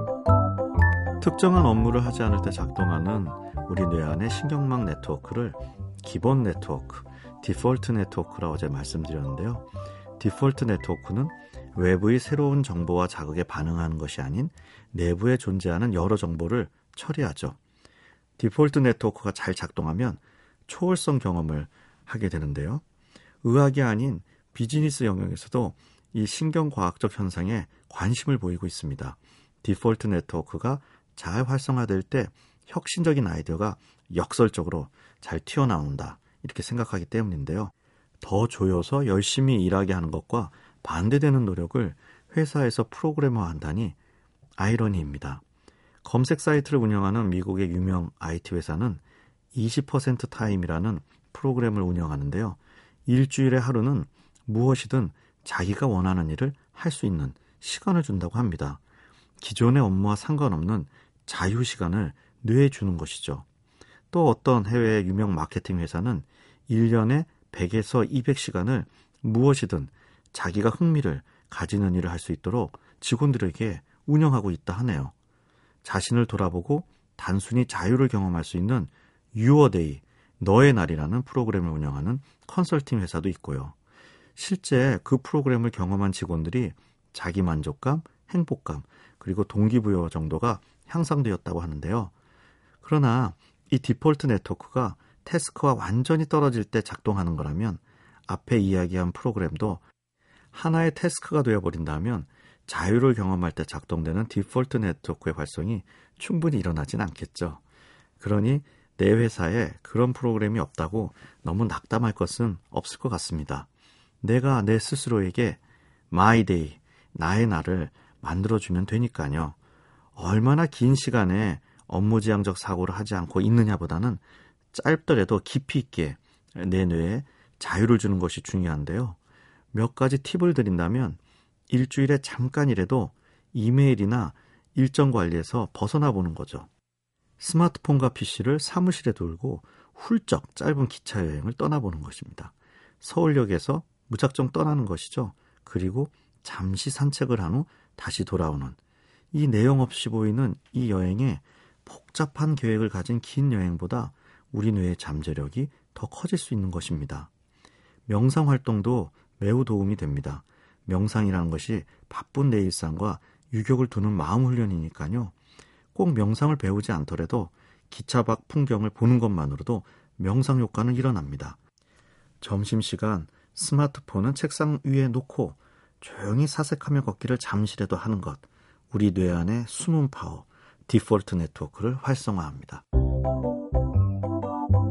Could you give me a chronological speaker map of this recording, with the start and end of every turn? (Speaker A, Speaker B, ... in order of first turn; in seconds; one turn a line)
Speaker A: 1.2-9.7
Speaker A: 10.2-17.6
Speaker A: 18.4-22.8
Speaker A: 23.4-44.0
Speaker A: 44.6-45.4
Speaker A: 46.0-49.0
Speaker A: 49.5-58.8
Speaker A: 59.4-63.5
Speaker A: 64.1-75.1
Speaker A: 75.8-83.8
Speaker A: 84.4-92.1
Speaker A: 92.8-99.8
Speaker A: 100.5-107.6
Speaker A: 108.2-113.7
Speaker A: 114.2-115.6
Speaker A: 116.1-119.6
Speaker A: 120.2-124.2
Speaker A: 124.7-129.2
Speaker A: 129.7-136.7
Speaker A: 137.4-148.8
Speaker A: 149.3-157.3
Speaker A: 158.1-165.3
Speaker A: 165.9-171.6
Speaker A: 172.4-182.8